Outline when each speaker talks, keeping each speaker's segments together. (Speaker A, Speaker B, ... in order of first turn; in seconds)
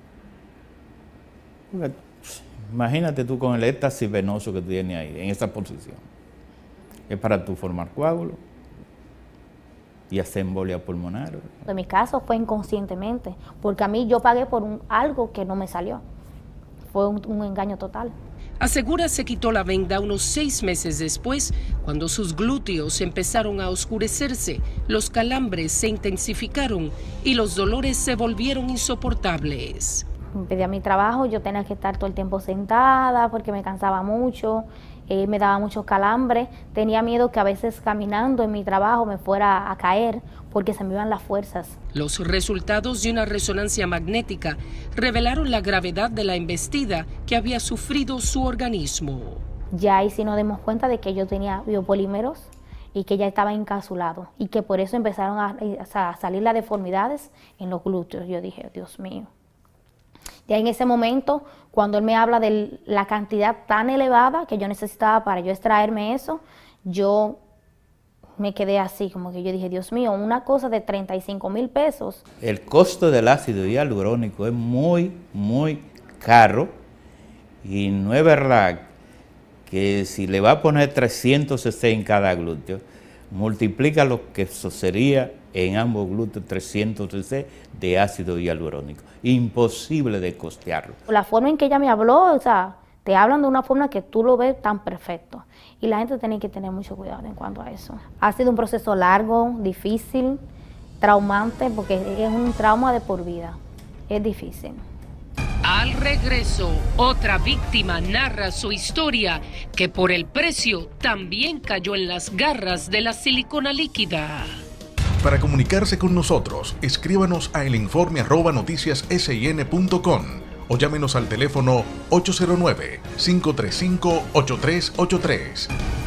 Speaker A: 1.7-6.0, 7.1-8.4, 10.1-11.6, 72.4-76.8, 77.6-78.9, 79.7-91.0
Speaker B: 11.7-16.0, 16.9-18.1, 30.4-41.8, 49.7-59.3, 60.5-67.4, 68.4-72.2, 91.1-100.4, 101.0-103.6, 104.1-104.8
Speaker C: 18.6-30.0, 41.9-49.4, 105.6-114.6
Speaker D: 115.2-125.7